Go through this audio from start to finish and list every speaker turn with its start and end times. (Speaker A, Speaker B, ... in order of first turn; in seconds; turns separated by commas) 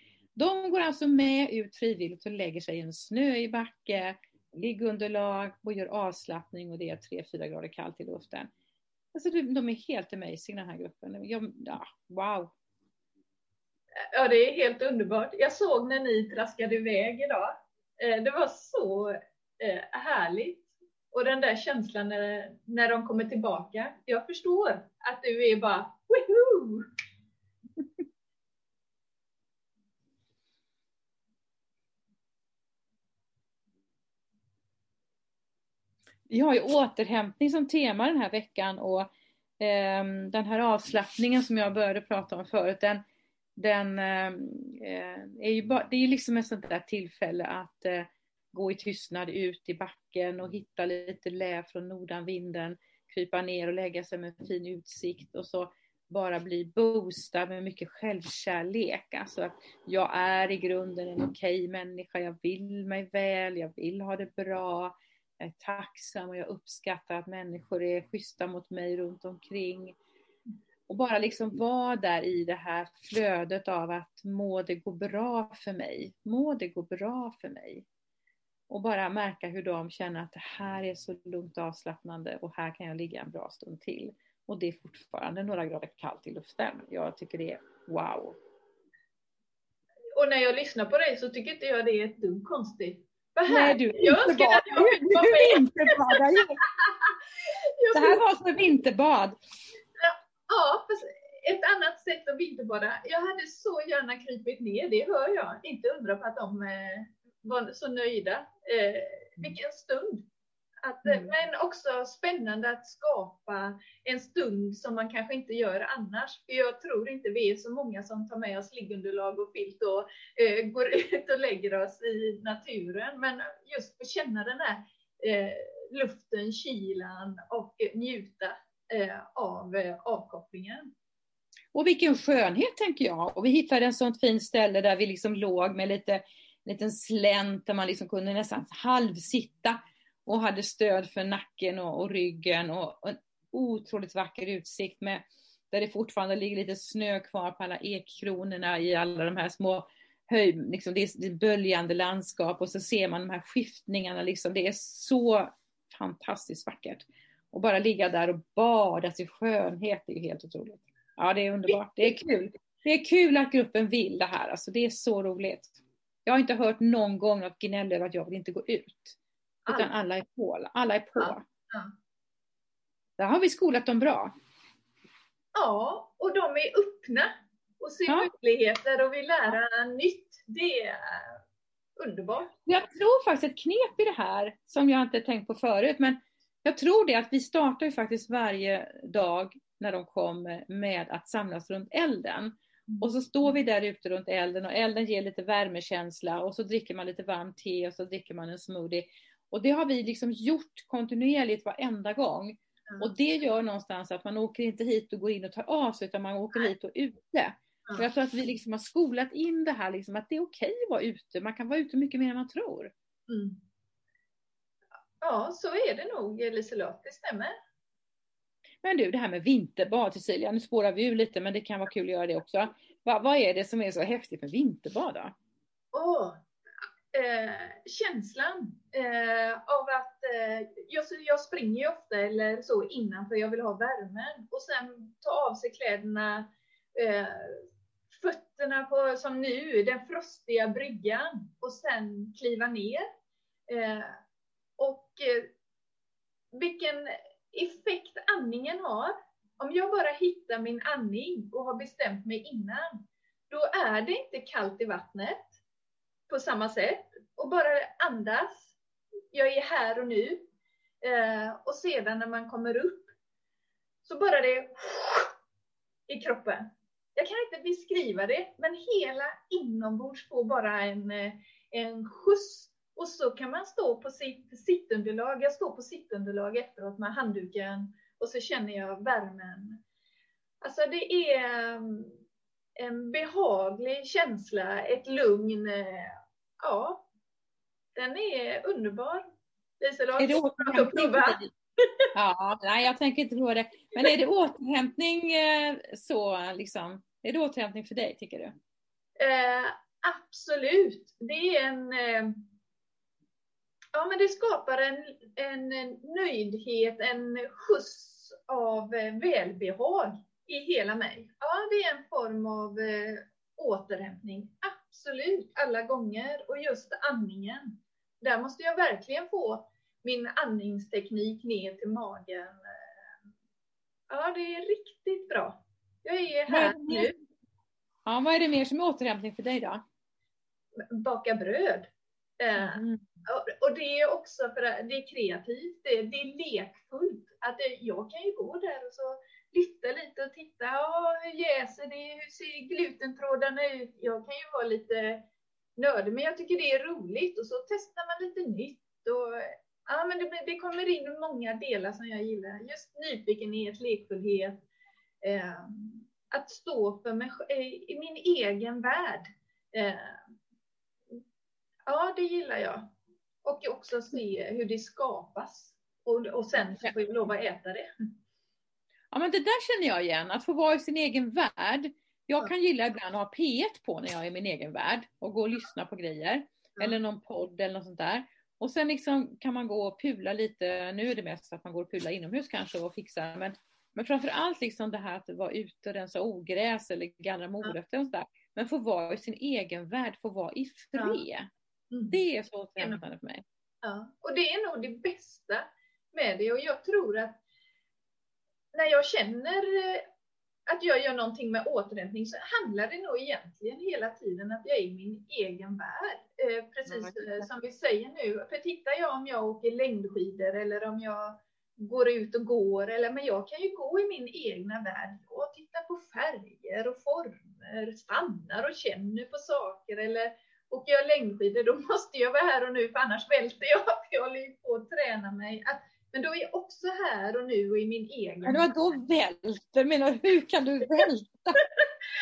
Speaker A: 0.3-8.5, Speaker A: 9.1-12.5, Speaker B: 14.1-26.9, Speaker A: 36.3-39.1, Speaker A: 39.6-43.0, Speaker A: 43.6-70.0, Speaker A: 70.9-77.8, Speaker A: 78.7-88.3, Speaker B: 90.2-95.9, Speaker A: 93.5-96.6, Speaker B: 96.6-98.2, Speaker A: 97.9-99.4, Speaker B: 100.0-110.2, Speaker B: 110.8-130.9, Speaker A: 111.0-111.3, Speaker A: 131.7-169.2, Speaker B: 169.7-169.9, Speaker A: 169.7-171.4, Speaker B: 171.2-171.9, Speaker A: 173.2-174.3, Speaker B: 175.5-181.4, Speaker B: 182.0-182.5, Speaker A: 182.7-212.9, Speaker B: 192.9-193.5, Speaker B: 213.3-213.6, Speaker B: 215.2-217.5, Speaker A: 218.8-225.3, Speaker B: 225.9-226.4, Speaker B: 227.1-243.0, Speaker B: 243.7-244.2, Speaker B: 244.8-245.5, Speaker B: 246.5-253.0, Speaker B: 253.5-255.5, Speaker B: 256.3-258.8, Speaker B: 259.3-260.4, Speaker B: 261.0-263.1, Speaker B: 264.1-265.3, Speaker B: 266.1-279.8, Speaker B: 280.6-282.2, Speaker B: 282.8-287.1, Speaker B: 287.9-289.2, Speaker B: 289.8-292.1, Speaker A: 290.2-291.5, Speaker A: 292.1-298.5, Speaker B: 299.2-302.4, Speaker B: 303.9-322.8, Speaker B: 324.1-327.1, Speaker A: 326.5-327.1, Speaker A: 328.1-329.8, Speaker B: 330.9-354.6, Speaker A: 332.6-333.1, Speaker B: 355.2-360.2, Speaker B: 361.9-362.9, Speaker B: 363.4-367.9, Speaker A: 366.6-366.9, Speaker A: 369.1-391.5, Speaker B: 391.0-391.2, Speaker B: 391.9-392.2, Speaker A: 392.1-393.4, Speaker B: 393.8-397.4, Speaker B: 398.7-400.1, Speaker B: 400.7-428.7, Speaker A: 406.9-407.5, Speaker A: 428.4-431.6, Speaker B: 431.6-431.9